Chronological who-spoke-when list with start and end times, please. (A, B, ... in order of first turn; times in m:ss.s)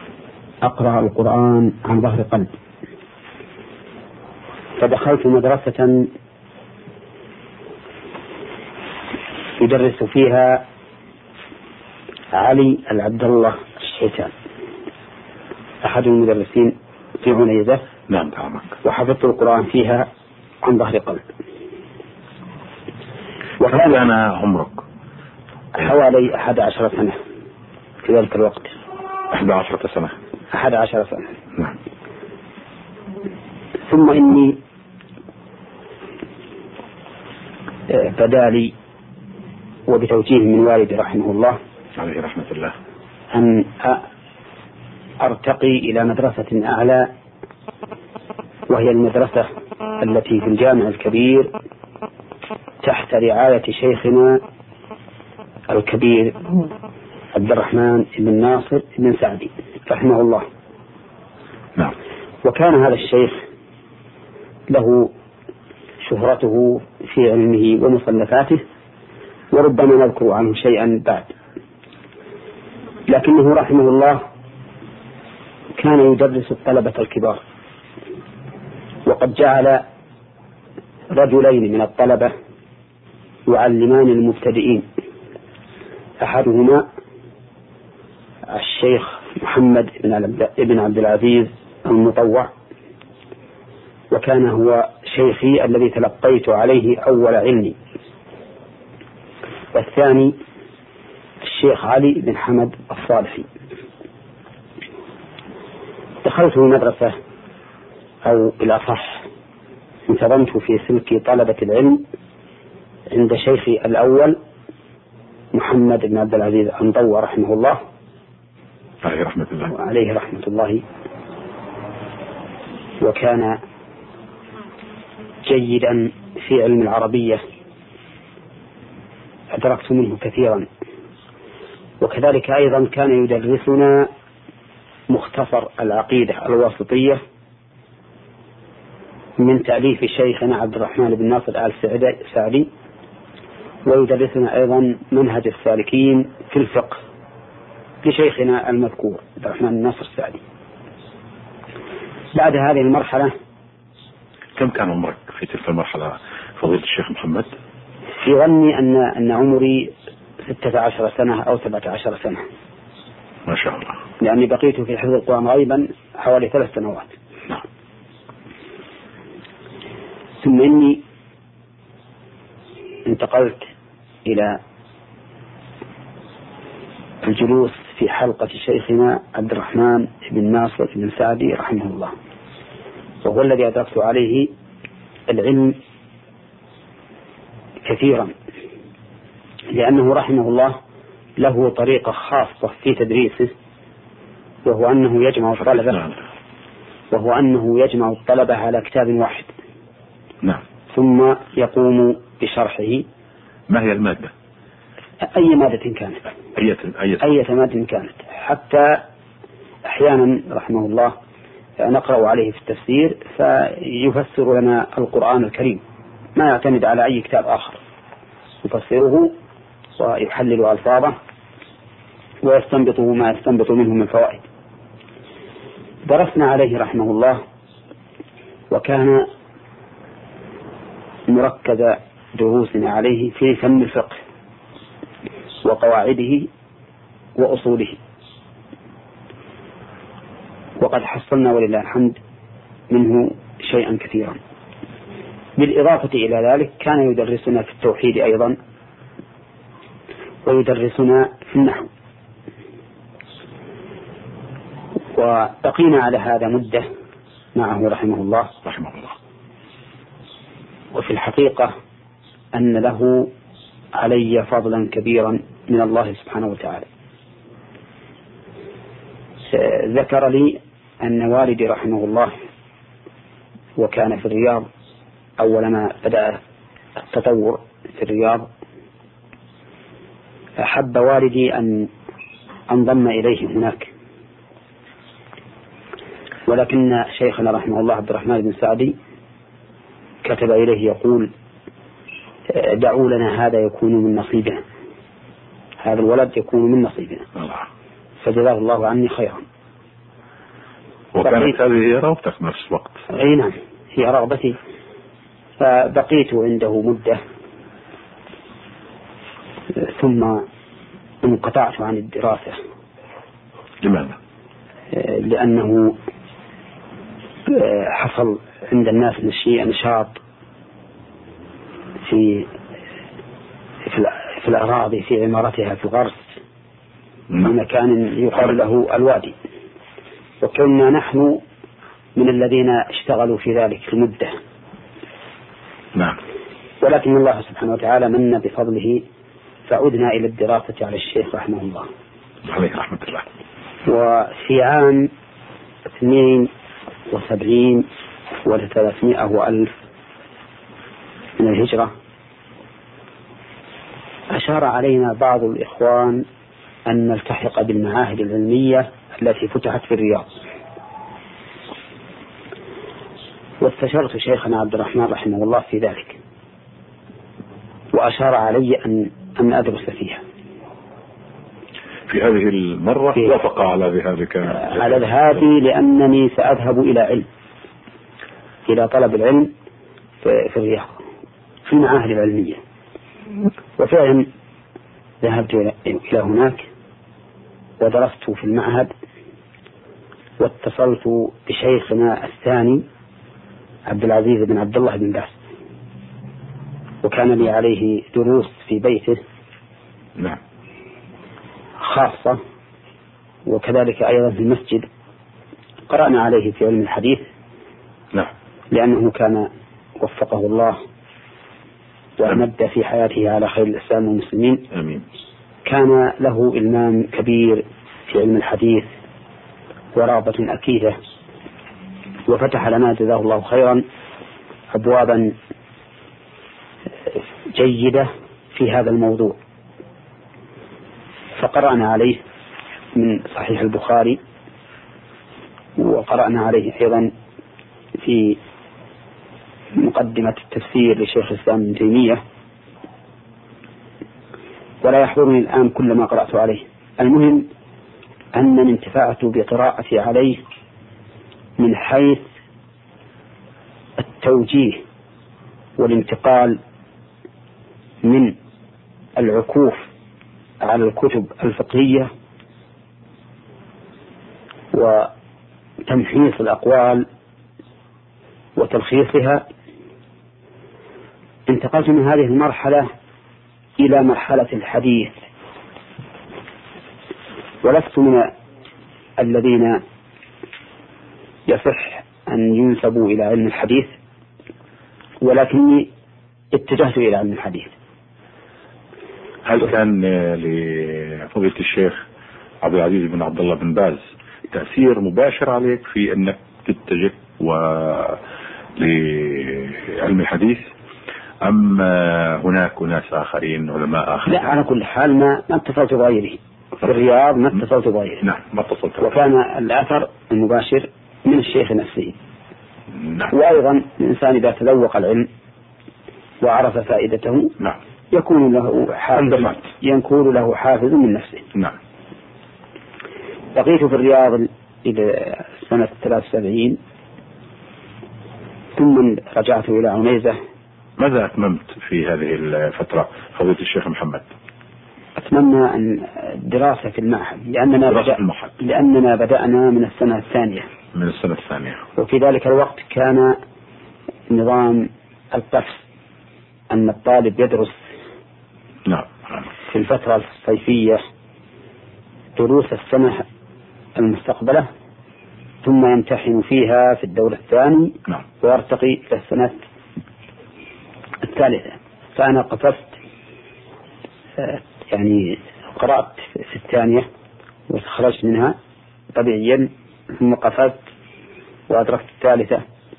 0:00.6-0:02.5 A
0:04.8-0:06.1 A
0:09.6-0:10.6 A
0:12.3-0:14.3 A
0:15.8-0:17.8 A
0:18.1-0:18.8 B
0:18.8-0:20.1 A
0:20.6-0:21.2 A
0:23.6-0:24.0 A
0:23.6-0:24.8 B
0:25.7-0:27.2 A
0:28.0-0:28.7 A
0:29.3-0:30.2 B
0:30.5-0:31.4 A
0:33.9-0:34.6 A
0:37.9-0:38.7 A
0:39.9-0:41.6 A
0:42.0-0:42.7 B
0:43.3-0:44.0 A
0:45.2-0:47.1 A
0:48.7-0:49.5 A
0:50.0-0:51.5 A
0:52.8-0:54.4 A
0:55.7-0:56.4 A
0:57.3-1:00.4 A
1:02.4-1:03.4 A
1:04.7-1:05.1 A
1:06.0-1:08.6 A
1:09.5-1:11.3 A
1:13.1-1:14.2 A
1:15.8-1:17.4 A
1:19.0-1:19.8 A
1:21.1-1:22.3 A
1:23.5-1:24.8 A
1:26.2-1:26.8 A
1:28.5-1:32.5 A
1:34.1-1:37.8 A
1:39.7-1:40.3 A
1:41.4-1:43.5 A
1:46.2-1:47.1 A
1:48.2-1:49.2 A
1:50.1-1:52.0 A
1:53.1-1:54.4 A
1:55.5-1:57.8 A
1:59.0-1:59.7 B
1:59.7-2:00.8 A
2:03.0-2:03.6 A
2:05.4-2:07.4 A
2:09.5-2:10.7 A
2:12.0-2:14.1 A
2:15.1-2:17.2 A
2:19.4-2:22.7 A
2:23.8-2:27.0 A
2:28.0-2:30.4 A
2:32.3-2:33.3 A
2:34.6-2:37.5 B
2:38.2-2:39.9 A
2:40.4-2:42.4 A
2:43.5-2:44.0 B
2:44.2-2:47.1 A
2:50.4-2:51.0 A
2:53.0-2:53.7 A
2:54.2-2:54.6 A
2:57.2-3:02.1 A
3:03.2-3:04.5 A
3:05.3-3:05.8 A
3:07.8-3:08.3 A
3:09.7-3:10.8 A
3:11.4-3:13.5 A
3:14.6-3:16.0 A
3:15.6-3:16.2 B
3:17.1-3:19.5 A
3:20.9-3:23.0 A
3:23.7-3:24.3 B
3:25.2-3:26.2 A
3:26.5-3:27.2 B
3:27.2-3:29.0 A
3:29.8-3:31.1 A
3:31.8-3:35.8 A
3:36.4-3:37.8 A
3:38.6-3:39.3 A
3:40.0-3:41.2 A
3:42.4-3:44.4 A
3:46.0-3:47.4 A
3:48.7-3:49.3 A
3:51.3-3:54.2 A
3:55.6-3:56.5 A
3:57.4-3:58.0 A
4:00.8-4:02.2 A
4:02.9-4:04.4 A
4:05.6-4:08.6 A
4:10.4-4:11.9 A
4:15.1-4:16.9 A
4:17.5-4:18.5 A
4:18.6-4:19.2 B
4:20.9-4:21.7 A
4:22.5-4:23.3 A
4:24.0-4:26.8 A
4:29.5-4:32.3 A
4:33.8-4:34.7 A
4:35.4-4:36.4 A
4:37.0-4:38.5 A
4:40.6-4:41.9 A
4:42.7-4:43.9 A
4:46.5-4:49.0 A
4:50.2-4:51.3 A
4:52.5-4:54.6 A
4:55.8-4:57.3 A
4:57.4-4:57.7 B
4:58.2-4:59.4 A
5:01.1-5:03.0 B
5:01.2-5:01.6 A
5:03.1-5:04.6 A
5:05.6-5:07.2 A
5:09.7-5:10.4 A
5:11.2-5:12.6 A
5:13.8-5:14.2 B
5:14.9-5:16.0 A
5:17.5-5:20.2 A
5:22.0-5:22.5 A
5:23.8-5:26.4 A
5:27.4-5:29.3 A
5:30.4-5:31.4 A
5:32.2-5:34.3 A
5:36.8-5:39.0 A
5:39.7-5:41.9 A
5:42.4-5:43.3 B
5:43.8-5:45.1 A
5:45.9-5:46.5 A
5:47.1-5:47.9 A
5:48.4-5:49.7 A
5:51.4-5:51.9 A
5:54.3-5:56.2 A
5:56.8-6:00.3 A
6:03.6-6:06.2 A
6:07.9-6:10.2 A
6:12.1-6:15.4 B
6:14.5-6:17.3 A
6:18.6-6:19.5 A
6:20.2-6:21.0 A
6:21.6-6:22.6 A
6:23.8-6:24.3 A
6:25.2-6:26.6 A
6:27.8-6:28.9 A
6:30.4-6:32.8 A
6:33.9-6:35.4 A
6:37.0-6:39.2 A
6:41.8-6:42.4 A
6:43.4-6:44.9 A
6:45.9-6:47.2 A
6:48.7-6:49.5 A
6:50.0-6:50.8 A
6:52.2-6:54.6 A
6:54.7-6:55.0 B
6:55.6-6:58.9 A
6:59.9-7:01.0 A
7:02.3-7:03.8 A
7:04.7-7:05.3 A
7:07.1-7:09.4 A
7:11.4-7:12.2 A
7:12.9-7:14.2 A
7:15.8-7:17.1 A
7:18.0-7:18.4 A
7:19.8-7:22.2 A
7:24.8-7:27.5 A
7:28.3-7:30.4 A
7:31.6-7:32.2 A
7:34.0-7:34.8 A
7:35.8-7:36.6 A
7:38.0-7:38.3 A
7:39.2-7:39.8 A
7:40.6-7:42.1 A
7:44.7-7:45.1 A
7:45.8-7:47.1 A
7:48.6-7:49.4 A
7:51.5-7:52.9 A
7:53.8-7:55.2 A
7:57.6-7:58.3 A
7:59.2-7:59.8 A
8:01.5-8:03.9 A
8:05.2-8:05.9 A
8:06.5-8:07.7 A
8:09.4-8:12.0 B
8:12.6-8:18.2 B
8:18.8-8:20.6 B
8:21.4-8:24.5 B
8:24.2-8:28.2 A
8:28.2-8:29.2 B
8:29.0-8:32.2 A
8:32.9-8:33.3 B
8:33.3-8:35.3 A
8:36.4-8:37.5 A
8:38.1-8:41.4 A
8:39.2-8:39.6 B
8:43.5-8:46.8 A
8:48.8-8:50.4 A
8:51.0-8:54.2 B
8:55.2-9:00.7 A
8:57.9-8:58.5 B
9:00.9-9:01.8 B
9:02.0-9:03.4 A
9:04.3-9:05.8 A
9:06.7-9:07.8 A
9:08.8-9:09.5 B
9:09.7-9:11.0 A
9:12.4-9:13.2 A
9:14.0-9:14.7 A
9:15.6-9:19.6 A
9:21.2-9:22.9 A
9:24.4-9:27.0 A
9:27.7-9:28.6 A
9:29.1-9:30.8 A
9:31.7-9:32.6 A